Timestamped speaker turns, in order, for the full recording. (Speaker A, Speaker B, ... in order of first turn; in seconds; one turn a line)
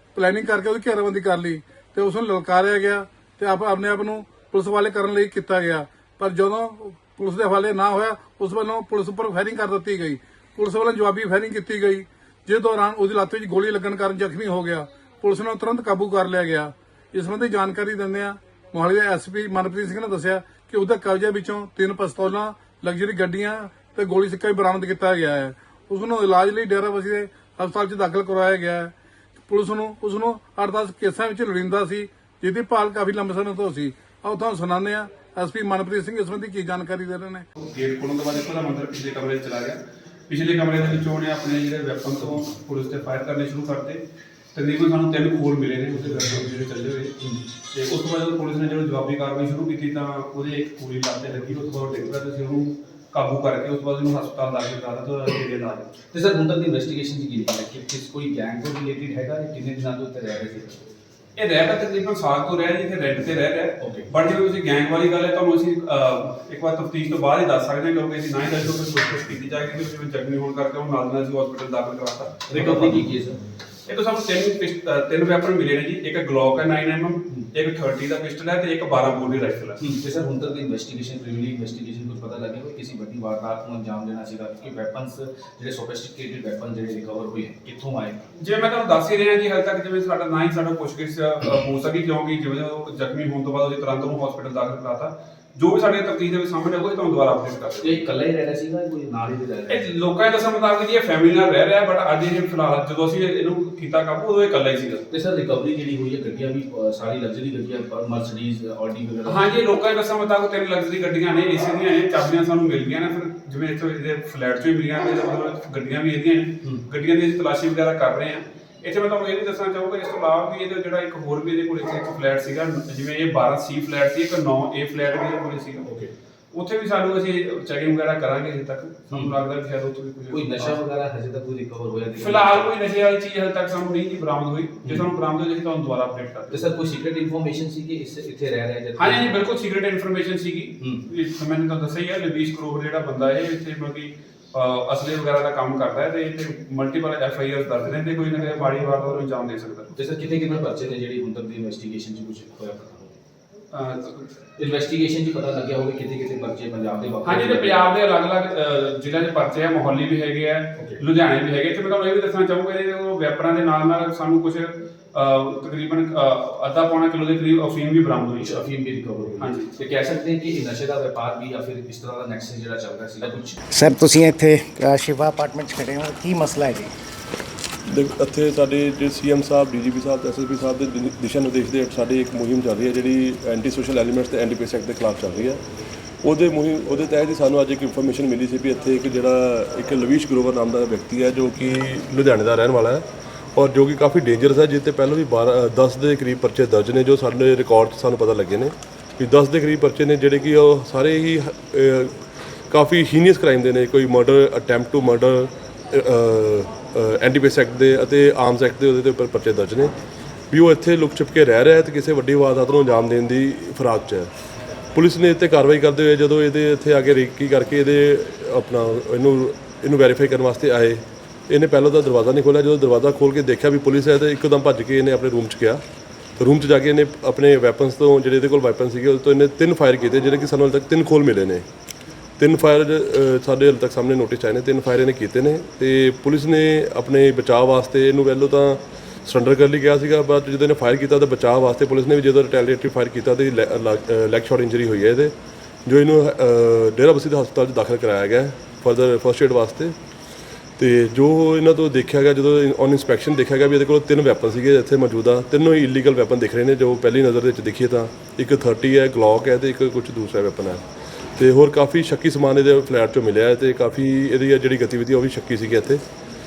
Speaker A: 0.1-28.9
Speaker A: 29.5-37.5
Speaker B: 37.6-44.0
Speaker B: 44.5-47.2
Speaker B: 47.7-55.9
Speaker C: 56.1-60.9
Speaker B: 61.4-73.2
Speaker C: 63.8-64.1
Speaker C: 72.5-73.4
Speaker B: 73.9-79.9
Speaker C: 79.8-88.3
Speaker B: 88.4-98.2
Speaker C: 97.8-99.8
Speaker B: 99.7-105.1
Speaker C: 105.1-109.6
Speaker B: 109.2-125.9
Speaker C: 125.8-126.1
Speaker B: 126.5-130.8
Speaker C: 130.3-132.7
Speaker B: 132.2-136.8
Speaker C: 136.5-139.4
Speaker B: 139.0-149.9
Speaker C: 149.9-153.2
Speaker B: 153.7-154.4
Speaker C: 154.6-157.8
Speaker B: 157.2-168.6
Speaker C: 160.8-161.0
Speaker C: 168.4-173.6
Speaker B: 169.4-169.7
Speaker D: 173.7-176.9
Speaker E: 177.9-185.6
Speaker E: 186.2-209.9
Speaker E: 210.5-214.3
Speaker E: 214.9-225.8
Speaker E: 226.4-231.7
Speaker E: 232.4-245.3
Speaker E: 245.9-250.0
Speaker E: 250.8-260.8
Speaker E: 261.4-266.0